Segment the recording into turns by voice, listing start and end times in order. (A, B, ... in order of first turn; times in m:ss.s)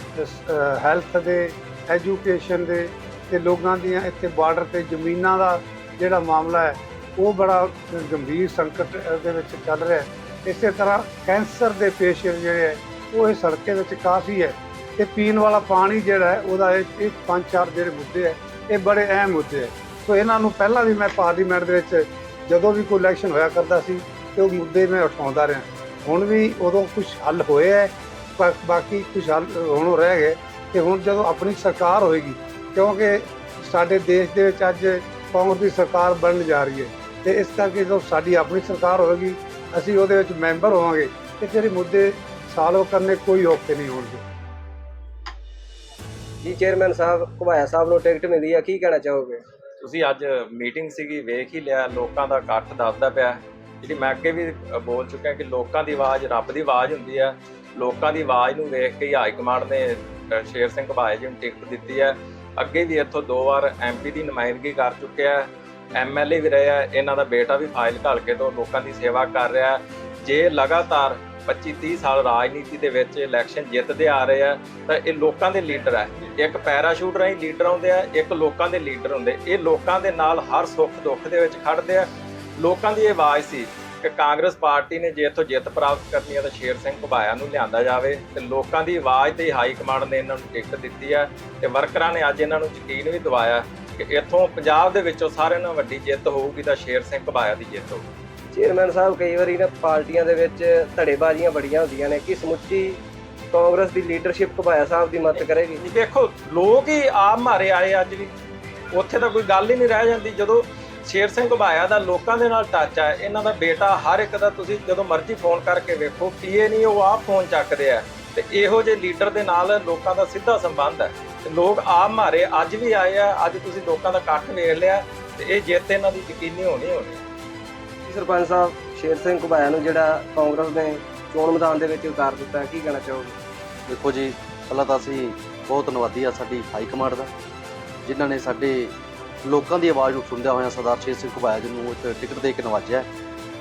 0:00.2-0:44.2 A
0:46.4-0:49.4 B
0:49.8-1:38.0 C
1:38.5-1:43.0 B
1:43.5-1:45.8 B
1:45.8-1:48.3 C
1:48.9-2:07.2 C
2:08.0-2:13.4 B
2:13.9-2:17.3 D
2:18.0-2:18.9 D
2:19.4-2:23.1 D